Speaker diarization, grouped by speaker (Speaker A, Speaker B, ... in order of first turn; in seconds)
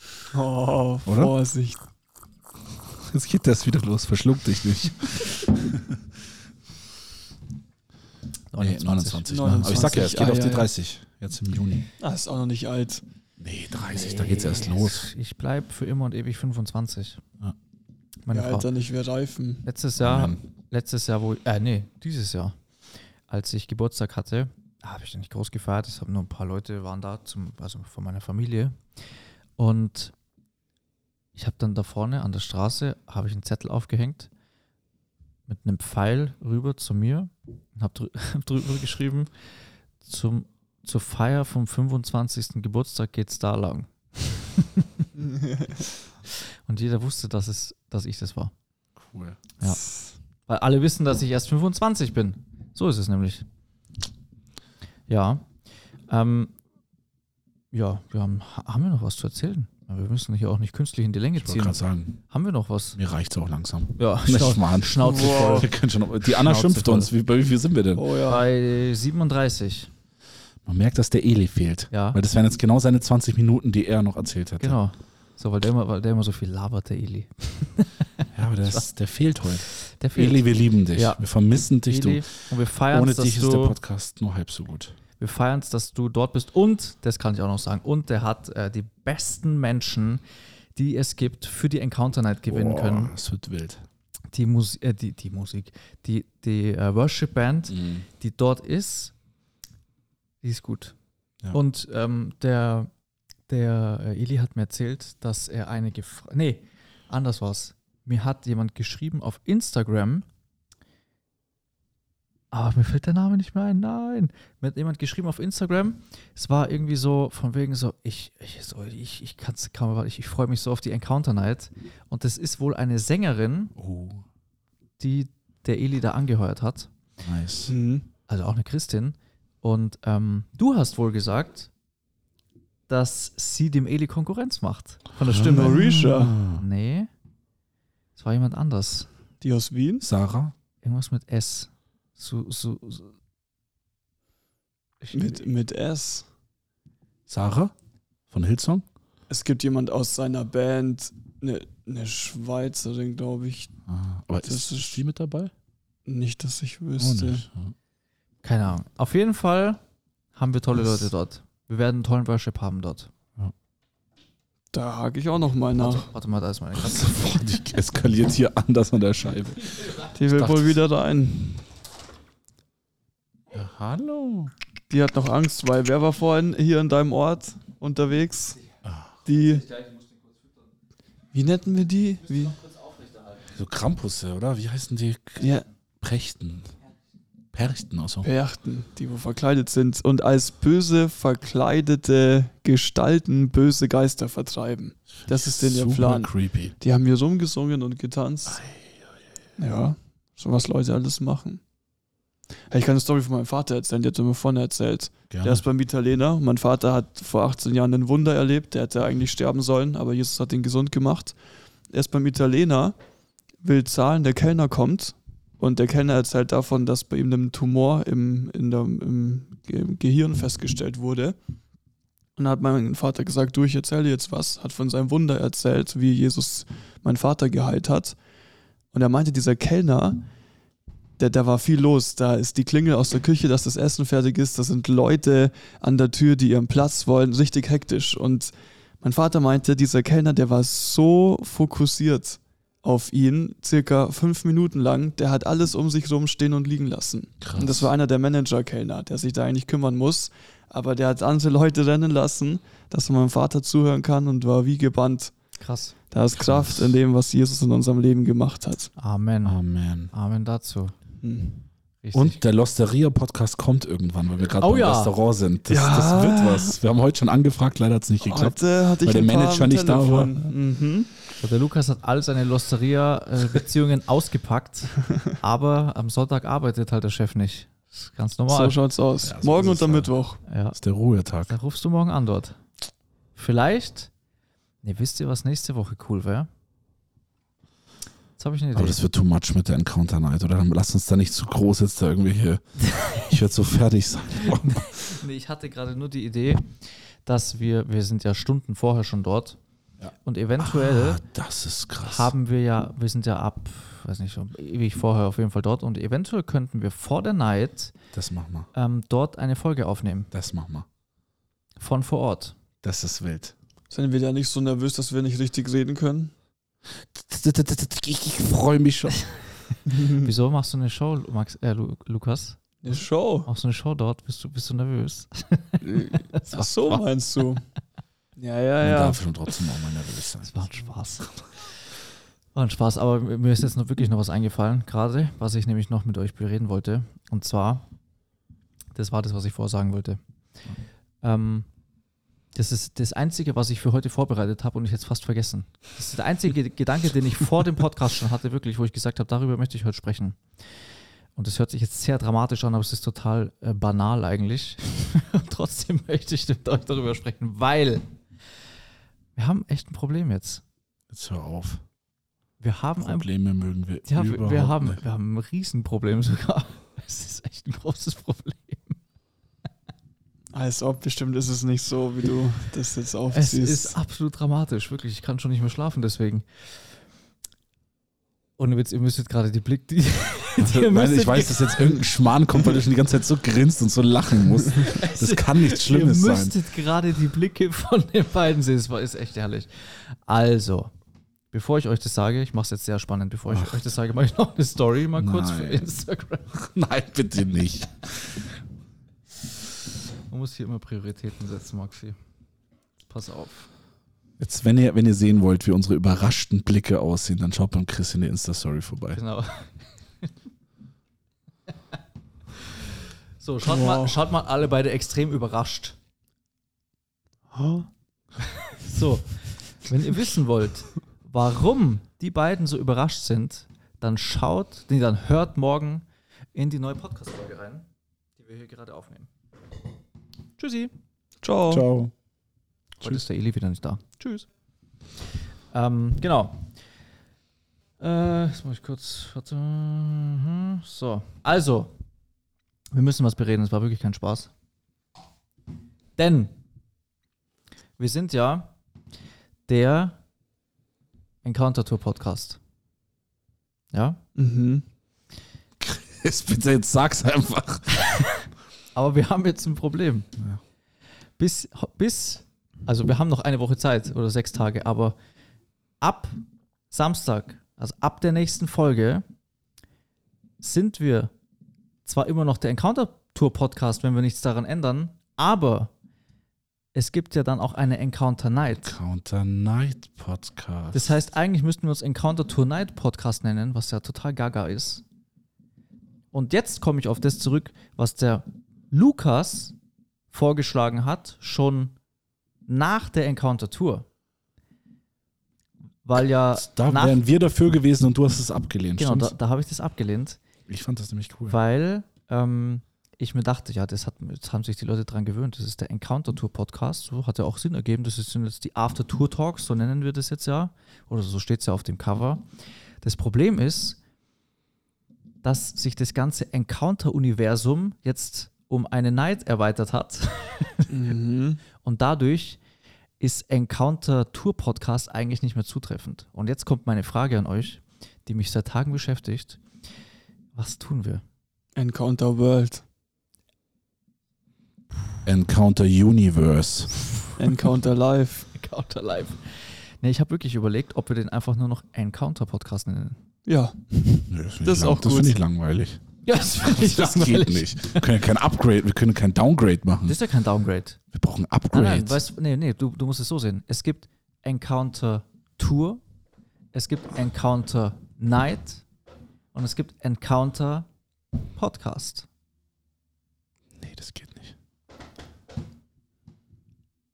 Speaker A: 0.3-1.8, 9.2-10.7, 12.0-13.0, 18.3-19.6, 45.3-45.7, 65.0-65.7, 67.9-68.4, 127.7-128.0, 135.4-136.3, 139.4-140.0, 145.1-146.2, 149.3-153.8, 154.4-155.0, 156.1-157.4, 164.7-166.1, 170.1-171.6, 174.9-178.6, 179.2-179.7, 181.3-182.6, 185.4-185.7, 188.2-198.6, 199.6-201.6, 202.7-211.4, 211.9-213.0, 213.6-221.4, 222.4-228.2, 228.9-230.2, 231.2-255.3, 256.1-258.9, 261.2-261.6, 265.7-266.8, 268.2-271.1, 278.5-280.4, 313.9-316.3, 319.9-320.2, 322.8-323.5, 325.8-327.6, 328.4-329.3, 370.5-373.9, 413.6-414.2, 431.4-431.9, 454.4-454.8, 520.9-521.6, 531.8-532.8, 537.4-538.5, 543.5-545.4
Speaker B: 1.1-1.3, 3.0-6.0, 8.6-11.9, 13.4-15.1, 20.0-20.4, 49.0-49.4, 61.4-62.2, 63.0-68.0, 70.7-74.8, 78.3-85.0, 92.5-93.8, 97.7-98.0, 123.8-124.2, 127.2-127.7, 135.3-136.6, 140.0-140.5, 147.3-147.7, 148.3-148.8, 153.9-155.5, 157.0-157.7, 166.8-170.8, 173.5-174.5, 178.8-179.2, 183.5-185.5, 186.0-186.7, 187.5-188.3, 195.2-196.7, 198.5-199.2, 205.3-205.6, 247.4-247.9, 256.3-257.0, 259.4-260.1, 262.1-270.5, 279.2-280.1, 280.7-281.5, 288.8-295.0, 300.0-302.3, 308.1-308.7, 310.3-310.9, 312.8-313.5, 316.9-319.3, 328.8-330.6, 361.1-361.8, 363.0-365.0, 380.6-386.6, 395.2-395.9, 396.5-398.4, 404.4-409.2, 431.7-432.1, 455.8-458.0, 478.7-481.1, 496.5-499.3, 500.7-501.6, 535.2-537.0, 544.3-550.2, 551.1-552.2, 563.8-564.5
Speaker C: 8.5-10.0, 13.8-17.2, 18.2-18.7, 19.6-22.6, 23.3-29.0, 29.6-30.1, 31.4-34.3, 35.5-39.3, 40.0-45.0, 46.6-48.5, 49.6-49.8, 50.4-53.5, 55.1-56.5, 57.7-63.0, 64.0-67.1, 68.2-69.9, 71.9-72.2, 74.6-78.8, 79.6-81.2, 81.9-83.8, 85.2-90.2, 90.7-93.1, 94.3-99.1, 100.4-101.0, 101.5-102.9, 103.5-110.2, 112.5-123.7, 125.0-126.9, 128.3-131.7, 132.9-136.0, 136.5-137.1, 138.2-139.1, 140.8-143.1, 145.0-145.4, 158.4-159.8, 160.3-163.1, 165.8-167.5, 255.6-255.9, 259.0-259.6, 260.1-260.9, 262.0-262.4, 264.6-265.1, 271.4-278.8, 280.4-280.8, 281.4-282.6, 283.4-284.1, 284.8-286.5, 288.4-289.0, 294.4-299.6, 300.2-301.2, 302.0-307.9, 308.7-310.3, 311.8-312.6, 320.1-327.0, 330.4-331.5, 332.5-337.8, 338.9-340.2, 341.2-341.7, 342.5-350.4, 351.4-358.1, 359.4-360.6, 362.6-363.3, 364.0-369.0, 373.3-376.4, 378.6-381.9, 384.8-390.9, 391.5-396.5, 400.3-402.2, 403.0-403.7, 409.1-410.3, 413.4-415.9, 418.8-427.9, 428.4-429.3, 430.6-430.9, 433.0-434.5, 435.7-436.7, 438.0-441.9, 442.9-444.5, 446.2-446.5, 448.0-448.7, 449.7-450.2, 451.4-452.6, 453.9-454.2, 458.9-460.3, 461.4-465.1, 466.0-469.2, 470.6-471.3, 472.0-475.9, 476.9-478.9, 480.9-485.0, 486.3-489.7, 490.3-491.9, 492.7-494.1, 496.0-497.2, 499.0-500.4, 501.5-514.0, 515.4-520.9, 521.8-522.6, 523.2-529.6, 530.5-531.2, 538.5-543.2, 546.2-548.1, 550.0-551.0, 551.7-556.0, 556.7-558.8, 559.5-560.9, 561.5-562.3